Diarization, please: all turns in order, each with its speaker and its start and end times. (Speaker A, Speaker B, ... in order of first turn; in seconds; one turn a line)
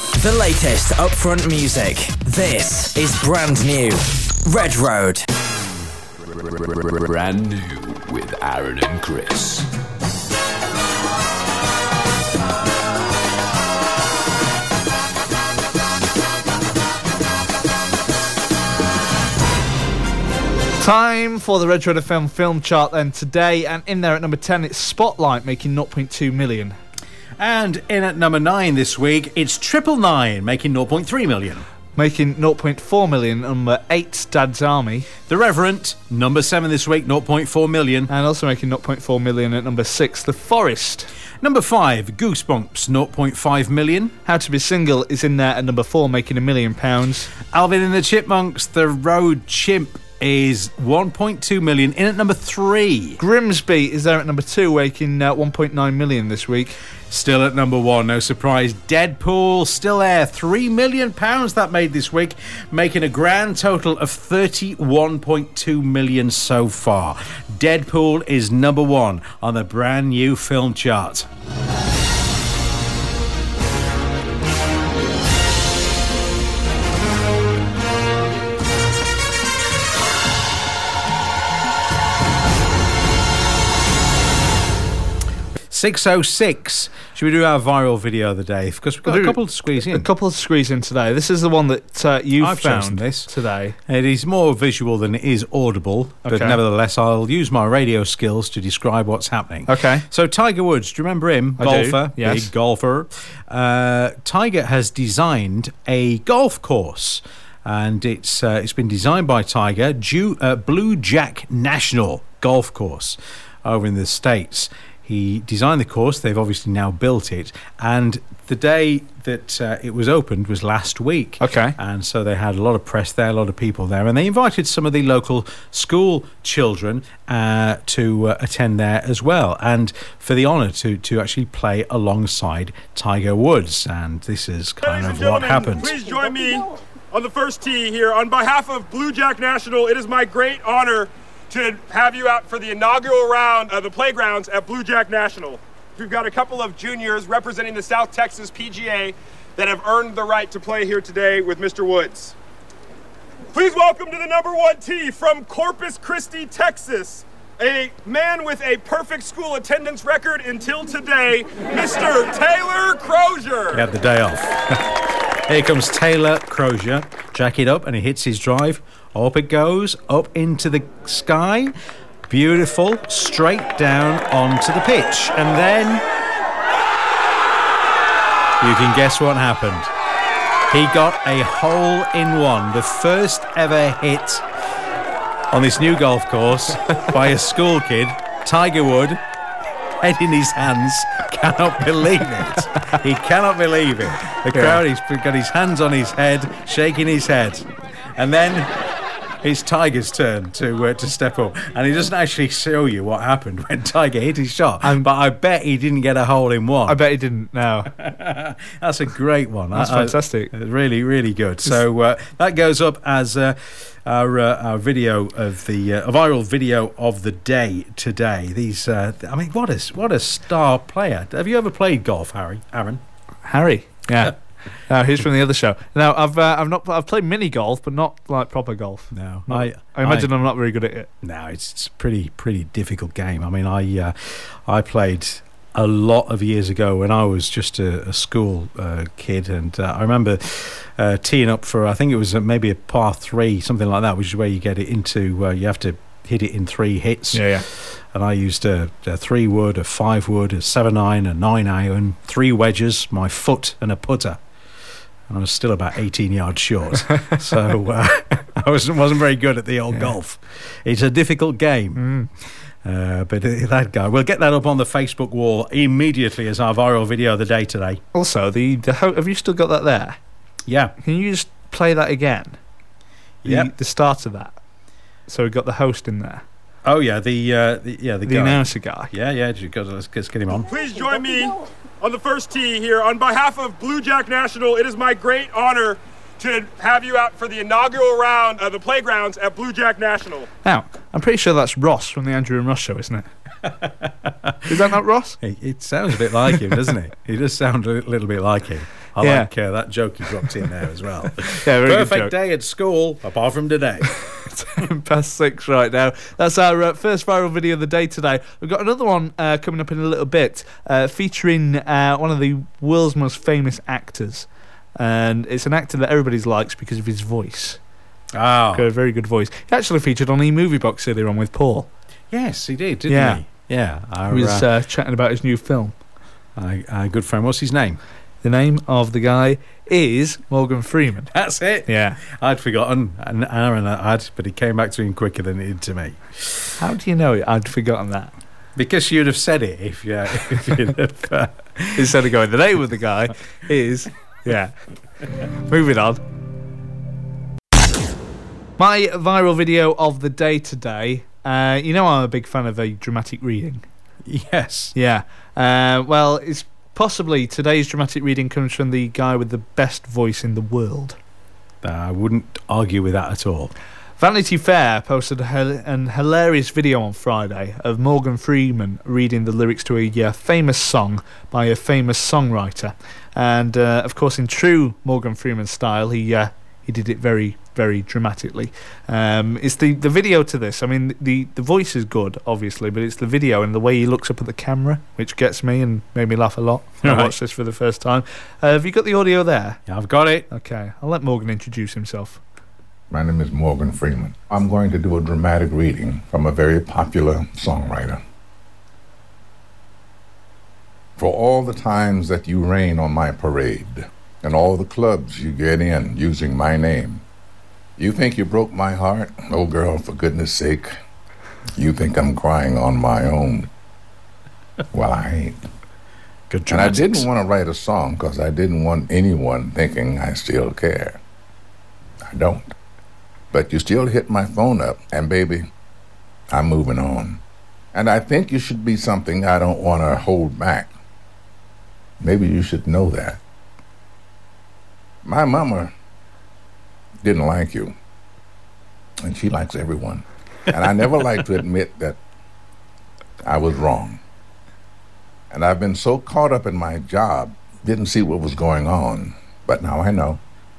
Speaker A: 0.1-5.3
Speaker B: 6.2-9.7
Speaker C: 20.8-26.8
Speaker D: 27.4-31.7
Speaker C: 32.0-35.1
Speaker D: 35.3-38.1
Speaker C: 38.1-41.1
Speaker D: 41.4-44.1
Speaker C: 44.2-47.3
Speaker D: 47.5-53.2
Speaker C: 53.2-56.8
Speaker D: 57.1-71.3
Speaker D: 85.7-90.1
Speaker C: 89.1-93.8
Speaker D: 92.4-93.3
Speaker D: 93.9-135.9
Speaker C: 96.3-96.6
Speaker C: 99.7-100.0
Speaker C: 101.6-102.5
Speaker C: 121.4-121.8
Speaker E: 134.8-152.3
Speaker E: 153.5-163.8
Speaker D: 163.7-164.8
Speaker D: 165.5-171.7
Speaker D: 172.3-176.0
Speaker D: 178.6-179.9
Speaker D: 180.7-184.4
Speaker D: 185.5-189.2
Speaker D: 190.0-197.7
Speaker C: 194.5-194.8
Speaker D: 198.2-198.7
Speaker D: 199.4-207.0
Speaker C: 206.9-207.9
Speaker D: 207.9-223.0
Speaker C: 209.7-210.5
Speaker C: 223.4-224.3
Speaker C: 224.9-231.1
Speaker D: 229.1-230.3
Speaker D: 231.2-254.4
Speaker C: 247.3-247.7
Speaker D: 255.3-262.1
Speaker C: 262.0-262.3
Speaker D: 262.8-268.0
Speaker C: 268.1-270.2
Speaker D: 270.7-270.9
Speaker C: 271.0-272.6
Speaker D: 273.4-273.7
Speaker C: 273.4-274.6
Speaker C: 275.3-276.4
Speaker D: 276.9-280.7
Speaker C: 278.3-279.1
Speaker E: 280.7-290.5
Speaker C: 290.6-293.3
Speaker D: 294.1-294.6
Speaker C: 294.7-295.4
Speaker D: 295.4-304.2
Speaker C: 299.2-299.5
Speaker C: 301.6-302.3
Speaker C: 304.5-317.8
Speaker D: 318.3-318.9
Speaker C: 318.8-321.9
Speaker D: 322.3-324.6
Speaker C: 323.1-323.4
Speaker C: 324.3-325.9
Speaker D: 326.6-328.0
Speaker C: 328.4-331.3
Speaker D: 331.3-336.7
Speaker C: 331.9-332.2
Speaker C: 336.8-338.3
Speaker D: 338.8-342.1
Speaker C: 342.0-344.7
Speaker C: 345.6-346.2
Speaker C: 348.8-353.8
Speaker D: 354.3-354.9
Speaker C: 354.9-361.2
Speaker D: 361.8-363.7
Speaker C: 364.2-389.8
Speaker D: 387.0-387.3
Speaker D: 389.9-390.5
Speaker C: 390.5-392.4
Speaker F: 393.1-398.2
Speaker F: 401.2-407.2
Speaker F: 408.0-410.9
Speaker F: 411.8-413.7
Speaker F: 414.9-415.6
Speaker D: 416.5-417.3
Speaker F: 416.7-421.2
Speaker F: 422.2-422.7
Speaker F: 423.5-425.7
Speaker F: 426.5-427.4
Speaker F: 427.9-430.9
Speaker F: 432.2-433.4
Speaker F: 435.2-435.9
Speaker F: 437.2-437.9
Speaker F: 439.2-442.2
Speaker F: 443.4-444.2
Speaker F: 445.5-450.4